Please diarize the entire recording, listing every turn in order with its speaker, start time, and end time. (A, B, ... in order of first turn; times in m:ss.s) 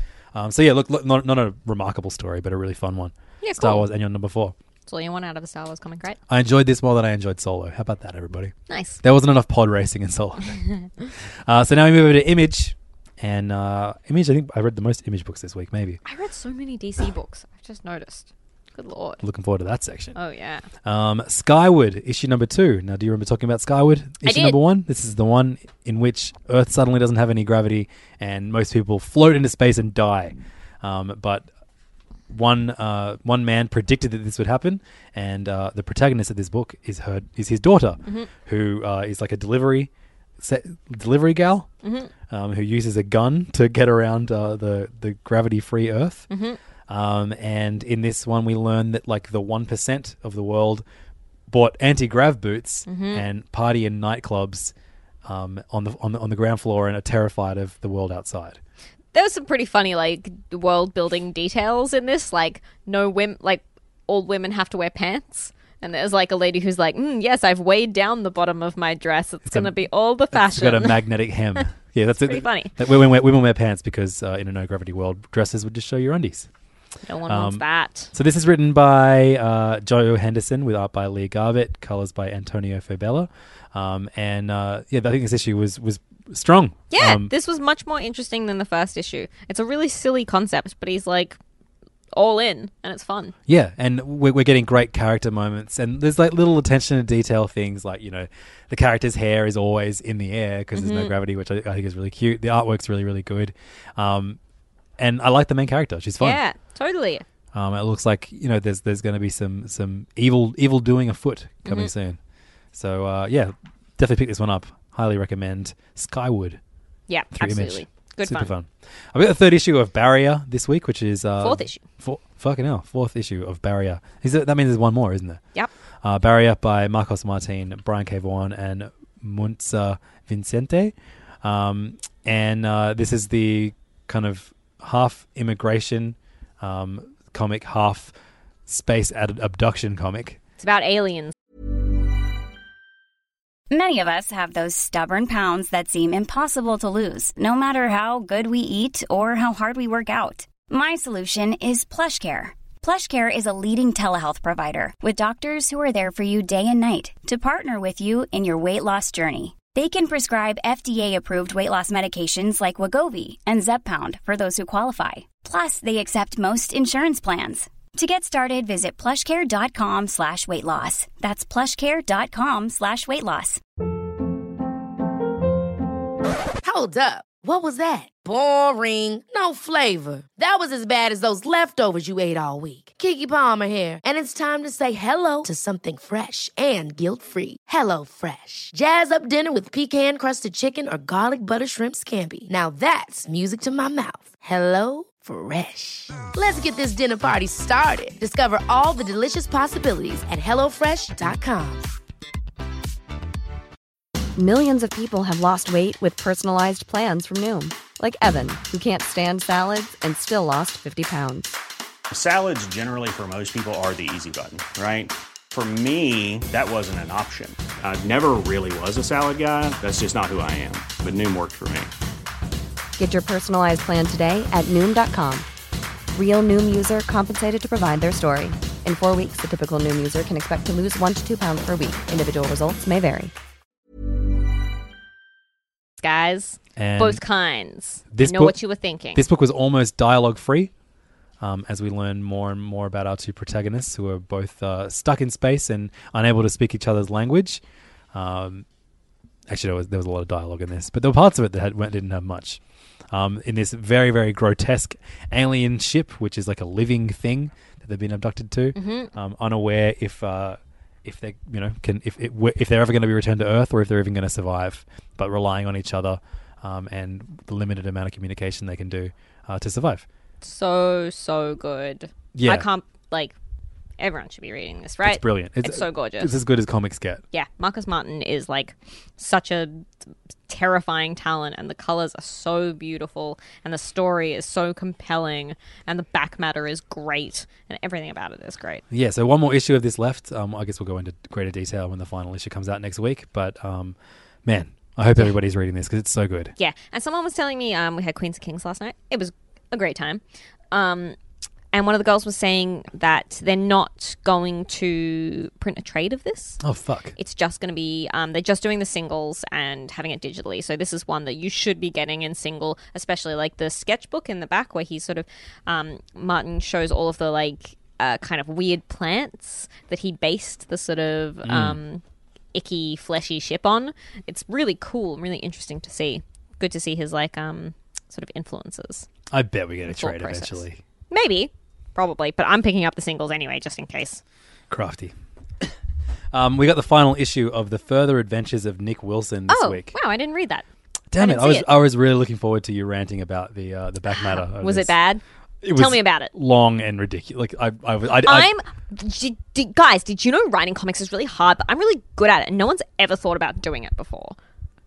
0:00.3-0:04.6 A
0:03.4-0:03.9 B
0:04.9-0:06.2 B
0:06.3-0:10.6 A
0:08.7-0:09.0 B
0:11.5-0:16.0 A
0:16.0-0:19.2 B
0:19.2-0:20.2 A
0:20.2-0:20.7 B
0:20.8-0:31.5 A
0:24.2-0:24.6 B
0:32.3-0:41.7 A
0:41.8-0:42.1 B
0:42.3-0:46.3 A
0:46.3-0:46.6 B
0:46.9-0:50.8 A
0:51.5-0:54.7 A
0:52.9-0:53.3 B
0:55.2-0:58.6 A
0:59.1-1:11.0 B
1:09.5-1:09.8 A
1:10.3-1:16.5 A
1:12.3-1:12.7 B
1:17.1-1:18.1 B
1:17.3-1:27.3 A
1:26.9-1:31.4 B
1:32.1-1:33.3 B
1:33.5-1:44.4 A
1:40.8-1:41.1 B
1:45.0-1:46.4 A
1:46.2-1:47.2 B
1:47.5-1:52.2 A
1:51.6-1:51.9 B
1:52.7-1:56.6 A
1:57.1-1:58.5 B
1:57.3-2:05.4 A
2:01.4-2:01.8 B
2:06.0-2:18.1 A
2:18.7-2:20.4 A
2:20.6-2:21.3 B
2:23.7-2:53.6 C
2:56.6-3:21.9 D
3:24.4-3:31.6 E
3:32.1-3:41.9 F
3:43.0-3:45.5 E
3:46.1-3:53.3 E
3:56.0-3:59.2 B
3:56.8-3:57.2 A
3:58.1-3:58.6 A
3:59.1-4:00.7 A
4:01.4-4:07.6 A
4:08.1-4:08.6 A
4:09.5-4:12.6 A
4:13.1-4:30.1 A
4:18.8-4:19.1 B
4:30.4-4:33.4 B
4:32.3-4:32.7 A
4:34.0-4:36.4 B
4:35.0-4:37.2 A
4:37.3-4:39.9 B
4:40.5-4:48.8 B
4:48.9-4:56.6 A
4:56.6-5:01.2 B
5:01.7-5:06.6 B
5:06.6-5:07.2 A
5:07.2-5:22.0 B
5:21.4-5:21.8 A
5:22.5-5:29.1 B
5:29.3-5:30.8 A
5:29.9-5:34.2 B
5:34.7-5:35.7 A
5:36.3-5:39.9 A
5:39.5-5:40.6 B
5:41.1-5:45.0 A
5:41.2-5:41.7 B
5:44.1-5:45.2 B
5:45.6-5:48.5 A
5:45.7-5:46.3 B
5:48.2-5:54.4 B